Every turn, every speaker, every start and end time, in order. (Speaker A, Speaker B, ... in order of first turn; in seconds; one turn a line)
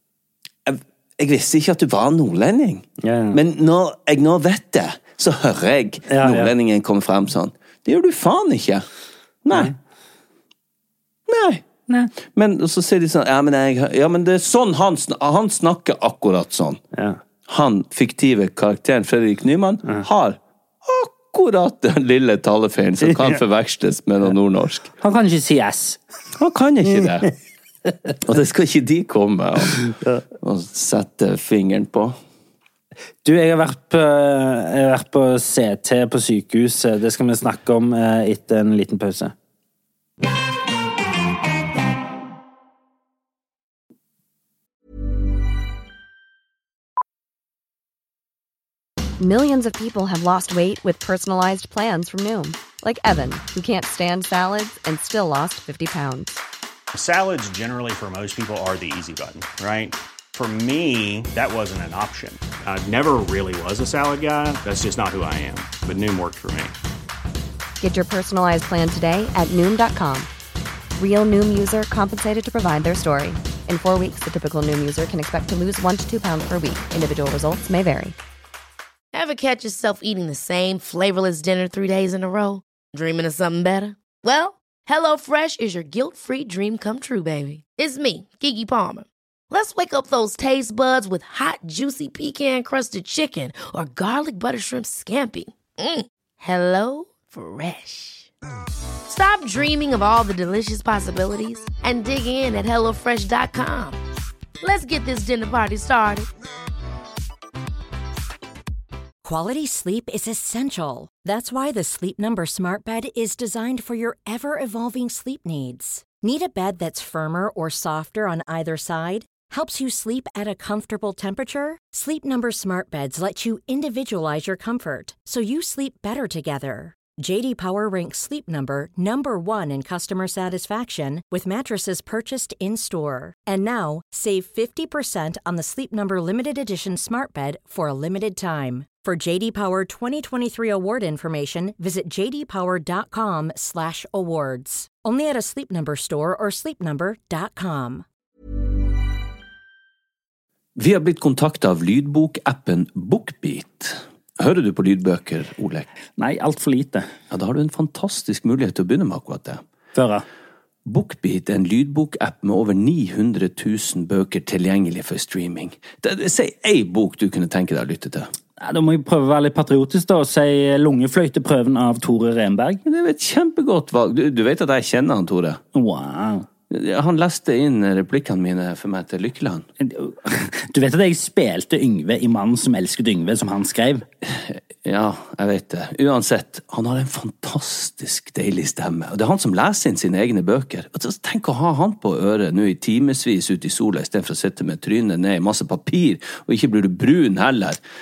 Speaker A: 0.7-8.8
Speaker B: 3.0-3.4
Speaker B: 6.1-6.5
Speaker A: 9.4-9.7
Speaker A: 11.3-11.6
Speaker A: 12.2-16.8
Speaker B: 16.9-17.2
Speaker A: 17.5-24.9
Speaker B: 23.0-23.4
Speaker B: 25.0-26.0
Speaker A: 26.4-27.3
Speaker A: 28.2-29.8
Speaker B: 29.8-30.2
Speaker A: 30.4-32.2
Speaker B: 33.2-39.3
Speaker C: 49.2-56.4
Speaker D: 56.9-66.7
Speaker C: 67.8-70.3
Speaker C: 71.0-78.1
Speaker E: 79.1-98.3
Speaker E: 99.1-104.0
Speaker E: 104.6-106.3
Speaker F: 109.2-148.0
Speaker A: 150.8-155.9
Speaker B: 156.2-157.1
Speaker A: 157.3-159.6
Speaker B: 159.9-160.2
Speaker A: 160.8-168.3
Speaker B: 168.6-172.8
Speaker A: 172.8-175.6
Speaker B: 175.7-176.4
Speaker A: 176.7-179.7
Speaker B: 179.8-184.0
Speaker A: 184.2-197.8